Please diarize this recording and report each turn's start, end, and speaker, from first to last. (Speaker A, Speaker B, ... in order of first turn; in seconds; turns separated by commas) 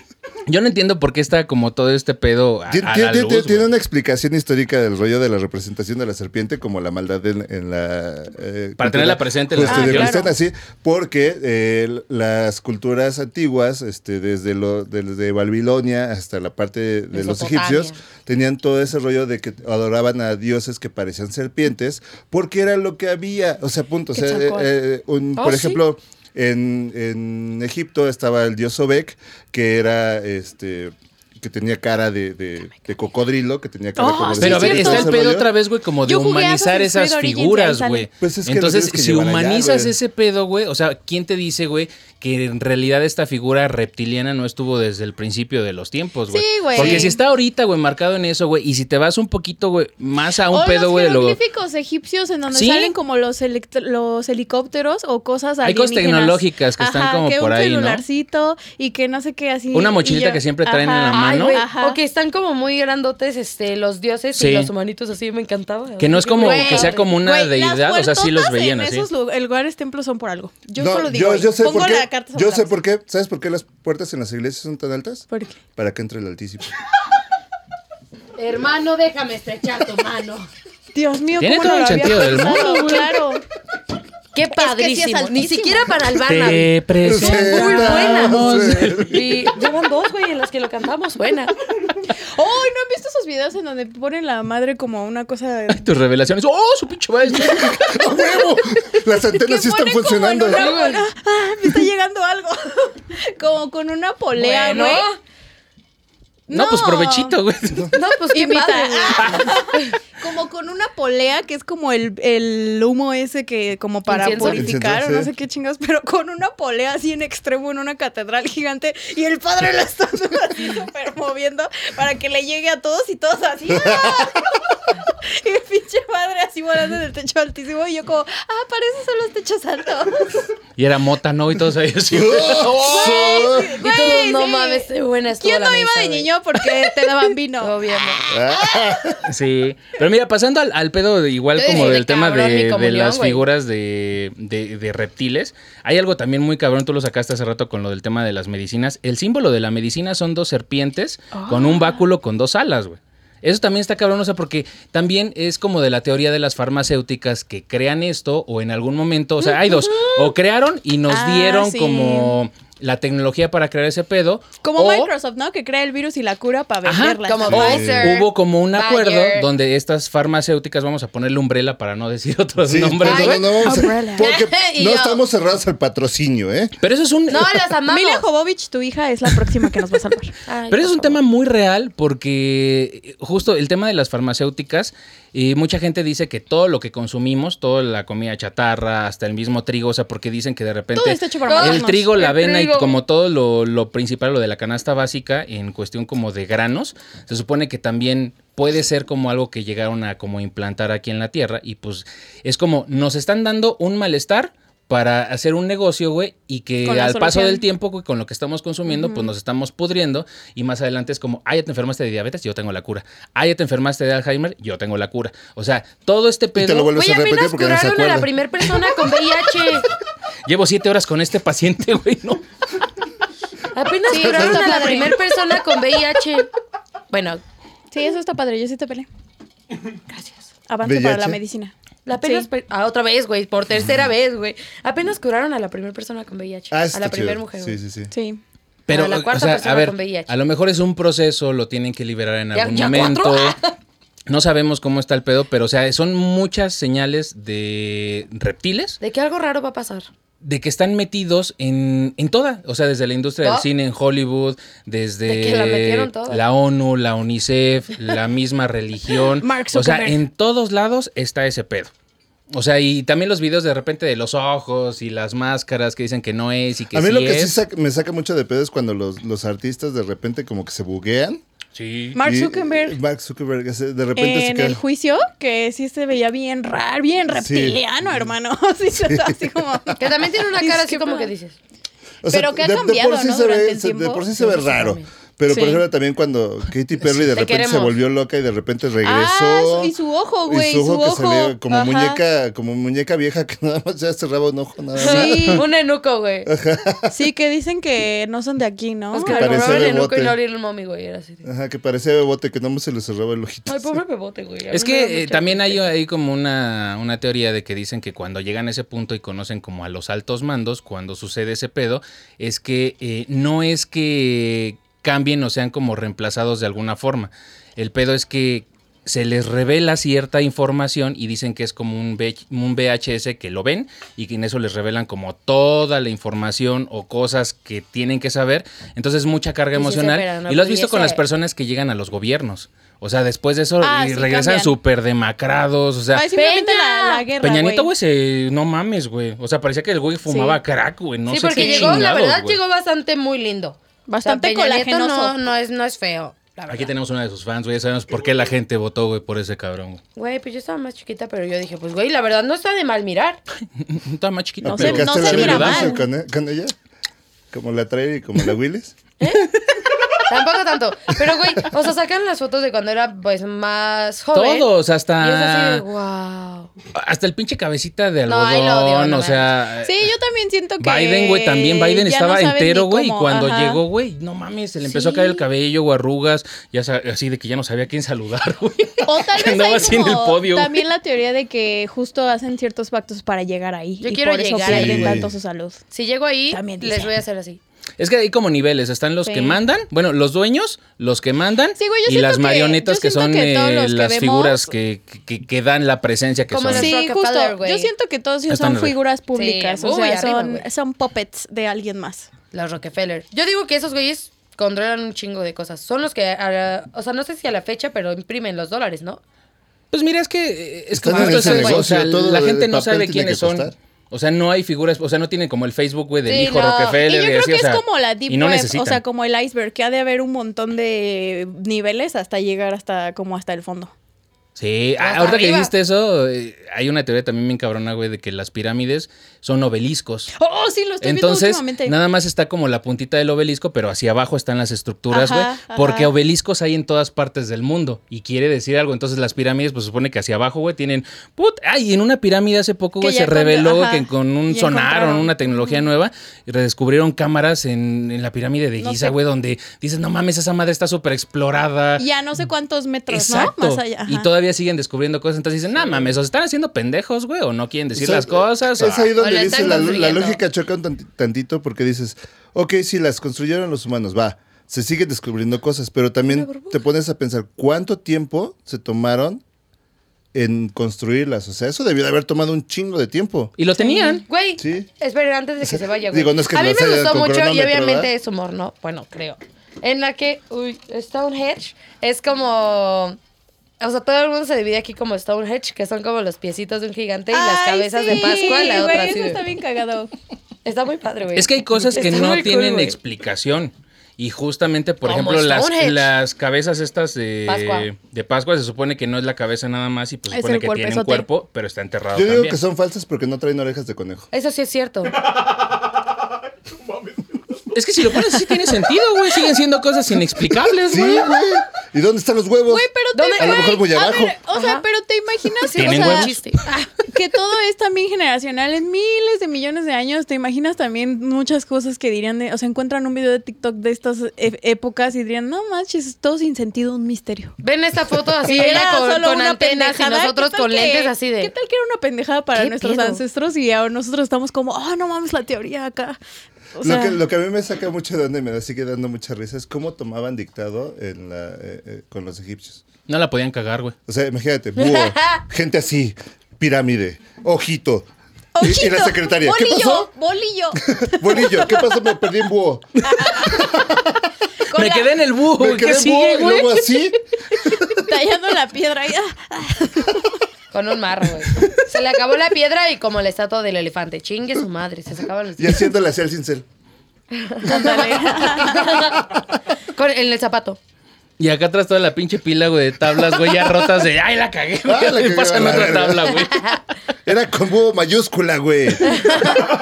Speaker A: 0.5-3.7, Speaker B: 2.7-35.5, Speaker A: 8.8-10.2, Speaker C: 9.7-10.3, Speaker D: 17.1-18.0, Speaker C: 24.1-24.7, Speaker D: 25.4-25.8, Speaker C: 34.0-35.3, Speaker A: 34.4-51.4, Speaker C: 36.1-38.1, Speaker B: 38.2-39.9, Speaker C: 46.3-47.2, Speaker C: 50.5-62.0, Speaker A: 52.5-52.9, Speaker A: 55.6-58.0, Speaker A: 59.7-61.6, Speaker D: 61.1-67.1, Speaker A: 64.3-64.7, Speaker A: 66.0-69.1, Speaker C: 66.4-72.7, Speaker B: 70.8-76.7, Speaker C: 75.3-75.6, Speaker D: 78.4-80.5, Speaker C: 80.9-83.4, Speaker A: 81.4-83.1, Speaker D: 84.3-91.5, Speaker C: 84.5-86.0, Speaker A: 86.2-89.4, Speaker B: 87.0-89.4, Speaker C: 92.1-95.9, Speaker A: 95.7-98.0, Speaker B: 97.4-100.7, Speaker C: 99.2-105.1, Speaker D: 100.5-101.0, Speaker D: 104.4-105.2, Speaker C: 106.5-107.4, Speaker A: 106.5-107.9, Speaker D: 107.9-109.9, Speaker C: 108.3-130.5, Speaker D: 114.1-114.7, Speaker B: 114.4-115.3, Speaker B: 123.7-124.3, Speaker A: 130.8-133.3, Speaker B: 132.1-133.8, Speaker C: 132.8-134.9, Speaker D: 133.8-136.3, Speaker C: 135.4-137.8, Speaker D: 137.6-138.3, Speaker B: 138.3-139.3, Speaker A: 139.2-165.1, Speaker D: 141.6-143.5, Speaker C: 151.3-151.7, Speaker D: 159.4-160.3, Speaker C: 161.1-162.4, Speaker C: 164.6-167.8, Speaker A: 166.8-173.7, Speaker D: 167.2-169.5, Speaker B: 167.5-168.2, Speaker B: 172.7-176.7, Speaker D: 173.0-173.6, Speaker C: 173.6-174.3, Speaker D: 174.2-175.2, Speaker A: 176.8-177.7, Speaker D: 177.3-178.3, Speaker C: 177.9-180.3, Speaker D: 180.5-181.2, Speaker A: 180.7-216.9, Speaker C: 190.9-192.1, Speaker D: 191.5-192.9, Speaker C: 206.8-207.6, Speaker C: 208.9-209.3, Speaker B: 216.6-218.3, Speaker D: 216.9-219.9, Speaker A: 220.5-222.4, Speaker D: 223.7-226.5, Speaker C: 224.1-225.2, Speaker B: 224.2-224.7, Speaker D: 227.1-227.4, Speaker C: 227.9-229.1, Speaker C: 230.7-232.5, Speaker B: 230.8-231.4, Speaker D: 232.1-237.8, Speaker B: 236.7-238.1, Speaker C: 238.1-238.4, Speaker A: 238.9-243.6, Speaker D: 238.9-240.3, Speaker D: 242.5-243.7, Speaker A: 244.3-249.0, Speaker D: 249.0-250.1, Speaker A: 250.4-261.9, Speaker D: 255.3-256.4, Speaker C: 259.4-260.2, Speaker A: 262.5-267.6, Speaker B: 266.9-271.4, Speaker A: 271.8-272.2, Speaker C: 272.1-273.0, Speaker B: 272.2-274.8, Speaker C: 274.2-281.3, Speaker B: 277.4-278.3, Speaker B: 279.0-279.9, Speaker D: 280.0-281.6, Speaker B: 282.2-289.9, Speaker C: 282.3-284.2, Speaker D: 284.4-285.1, Speaker C: 285.5-285.8, Speaker D: 287.2-287.9, Speaker C: 289.0-292.2, Speaker B: 290.5-295.6, Speaker C: 295.0-295.6, Speaker D: 295.0-296.5, Speaker B: 296.5-297.1, Speaker C: 297.1-299.7, Speaker D: 299.1-301.4, Speaker B: 299.2-300.4, Speaker B: 301.4-304.0, Speaker D: 303.7-305.8, Speaker A: 304.7-336.3, Speaker D: 329.8-331.2, Speaker C: 333.8-334.8, Speaker C: 336.1-337.9, Speaker D: 336.3-337.3, Speaker A: 337.4-342.6, Speaker C: 340.3-340.6, Speaker D: 341.3-346.9, Speaker C: 341.5-342.0, Speaker C: 344.1-345.4, Speaker A: 346.7-350.0, Speaker D: 350.2-353.4, Speaker A: 353.8-355.9, Speaker B: 354.6-356.7, Speaker C: 354.7-356.0, Speaker B: 357.5-359.0, Speaker D: 359.2-359.5, Speaker D: 360.3-364.7, Speaker A: 364.3-365.9, Speaker D: 365.2-366.7, Speaker A: 366.9-370.1, Speaker D: 368.3-369.6, Speaker C: 369.8-373.8, Speaker A: 370.8-380.8, Speaker C: 374.9-375.4, Speaker C: 379.1-385.8, Speaker D: 384.0-385.2, Speaker B: 384.7-385.3, Speaker D: 385.9-387.6, Speaker C: 386.5-387.1, Speaker A: 388.0-397.0, Speaker C: 389.2-389.6, Speaker C: 391.8-394.7, Speaker D: 396.5-397.9, Speaker C: 396.7-402.3, Speaker A: 398.5-399.0, Speaker D: 399.3-400.7, Speaker D: 402.5-409.2, Speaker A: 409.9-419.0, Speaker B: 410.9-413.7, Speaker D: 411.1-411.9, Speaker D: 416.3-417.0, Speaker C: 417.0-423.9, Speaker A: 424.6-430.3, Speaker D: 425.0-425.7, Speaker C: 430.4-432.0, Speaker A: 431.0-452.0, Speaker C: 435.1-436.1, Speaker C: 443.0-445.9, Speaker C: 448.8-449.2, Speaker C: 452.0-454.3, Speaker A: 453.1-459.1, Speaker B: 457.9-469.4, Speaker D: 459.2-460.4, Speaker D: 466.3-466.8, Speaker B: 470.3-473.5, Speaker A: 473.6-474.2, Speaker C: 473.8-474.2, Speaker D: 474.3-483.2, Speaker B: 474.6-474.9, Speaker B: 475.6-478.1, Speaker D: 483.8-489.4, Speaker C: 487.3-490.1, Speaker D: 490.6-493.0, Speaker A: 491.4-502.6, Speaker D: 495.1-496.1, Speaker D: 497.5-497.9, Speaker C: 500.3-501.3, Speaker B: 502.1-504.3, Speaker D: 504.3-505.2, Speaker A: 507.7-511.3, Speaker B: 510.8-514.4, Speaker C: 512.7-516.4, Speaker D: 513.1-513.7, Speaker D: 514.5-514.8, Speaker D: 515.6-517.0, Speaker A: 515.8-516.4, Speaker C: 517.1-527.6, Speaker D: 527.6-531.5, Speaker C: 528.4-536.2, Speaker D: 532.5-533.2, Speaker C: 536.8-537.2, Speaker B: 536.8-542.8, Speaker A: 543.1-544.0, Speaker B: 544.1-548.1, Speaker D: 544.8-545.4, Speaker C: 548.5-551.8, Speaker B: 548.6-550.1, Speaker B: 550.8-554.3, Speaker C: 553.0-553.7, Speaker C: 554.7-555.1, Speaker A: 554.7-556.7, Speaker B: 555.6-558.0, Speaker C: 556.4-556.7, Speaker C: 557.9-560.4, Speaker D: 560.7-565.9, Speaker B: 565.6-566.7, Speaker D: 567.3-569.2, Speaker C: 567.6-569.0, Speaker B: 569.0-569.4, Speaker D: 569.9-570.8, Speaker A: 571.4-576.9, Speaker B: 574.9-576.4, Speaker B: 577.3-579.5